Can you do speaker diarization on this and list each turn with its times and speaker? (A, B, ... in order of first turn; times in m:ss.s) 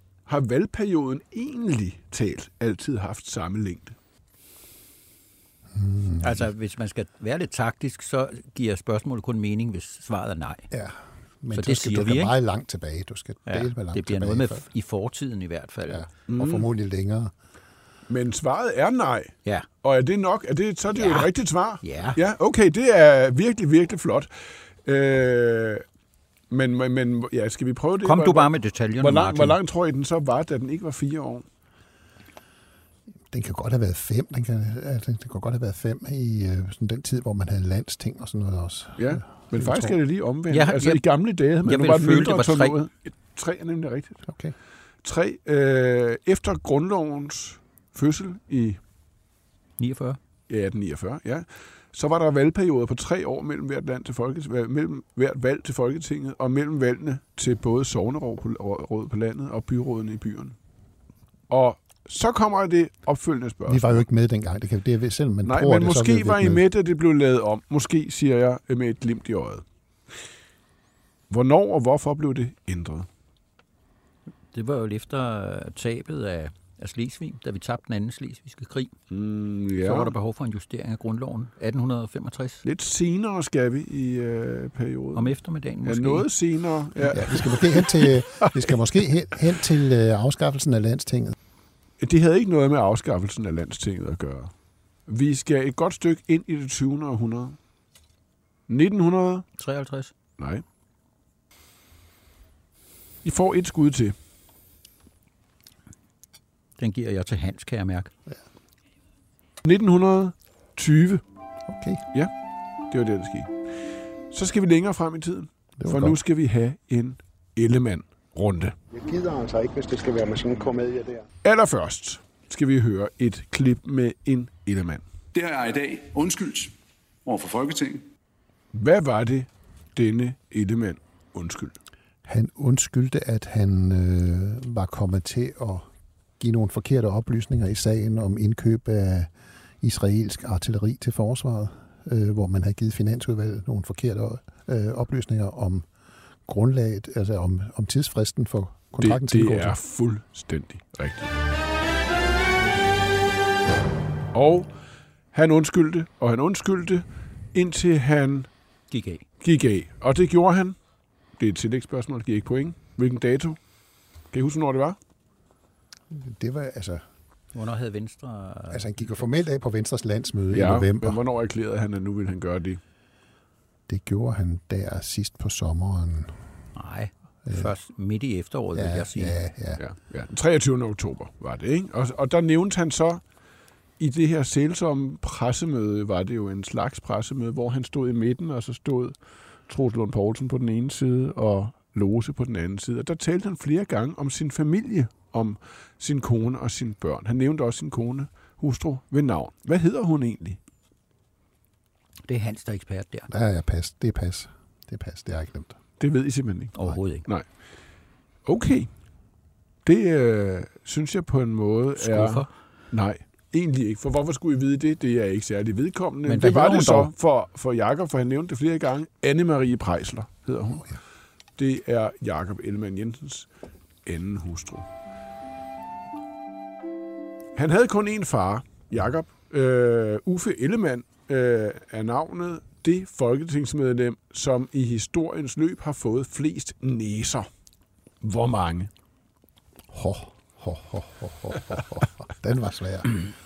0:00.3-0:03.9 A
0:05.7-0:06.5 B
0:06.2-0:10.7 C
0:10.7-0:14.6 B
0:11.5-0:12.3 C
0:13.5-0:16.1 C
0:15.9-0:17.3 B
0:16.3-0:16.7 A
0:18.1-0:24.3 A
0:20.9-0:21.3 C
0:21.8-0:22.2 C
0:24.8-0:25.8 A
0:26.5-0:31.4 A
0:28.0-0:29.6 C
0:33.3-0:40.0 B
0:39.0-0:44.2 A
0:40.5-0:41.0 C
0:41.6-0:42.8 C
0:44.3-0:44.5 B
0:45.0-0:48.8 A
0:49.8-0:50.2 C
0:50.5-1:00.6 A
1:01.5-1:04.0 A
1:03.6-1:06.6 B
1:05.4-1:09.6 A
1:11.3-1:13.1 A
1:14.5-1:18.9 C
1:19.1-1:20.1 A
1:19.8-1:22.6 C
1:22.6-1:28.8 A
1:25.1-1:26.3 C
1:27.1-1:31.4 B
1:32.0-1:34.5 A
1:35.1-1:37.6 A
1:38.7-1:39.4 A
1:39.6-1:40.1 C
1:40.4-1:40.6 A
1:43.2-1:44.1 A
1:46.8-1:48.1 C
1:49.6-1:51.2 A
1:51.7-1:52.0 B
1:52.9-1:53.5 A
1:54.3-1:58.7 A
1:55.8-1:56.2 B
1:58.9-2:01.2 D
2:01.4-2:05.0 A
2:05.3-2:06.7 E
2:07.2-2:08.0 E
2:08.7-2:11.7 A
2:12.2-2:15.9 B
2:16.4-2:25.9 B
2:26.5-2:29.8 B
2:29.0-2:31.4 A
2:34.3-2:34.7 A
2:35.3-2:38.5 A
2:38.9-2:39.2 C
2:39.4-2:40.8 A
2:41.4-2:43.6 A
2:44.3-2:45.0 A
2:46.1-2:47.0 B
2:47.5-2:49.0 C
2:48.7-2:51.2 B
2:50.5-2:52.8 A
2:53.9-2:56.3 B
2:56.7-2:59.4 C
2:57.4-2:57.7 B
2:58.7-2:59.8 B
2:59.8-3:03.2 A
3:04.0-3:09.1 A
3:09.7-3:20.6 A
3:22.3-3:23.3 C
3:23.3-3:25.8 B
3:26.0-3:26.7 A
3:26.7-3:27.3 C
3:28.4-3:28.9 A
3:29.8-3:40.9 A
3:32.0-3:32.5 C
3:36.2-3:37.1 C
3:41.6-3:43.5 A
3:44.0-3:44.9 A
3:47.5-3:57.5 A
3:58.2-3:58.9 A
3:59.9-4:03.1 B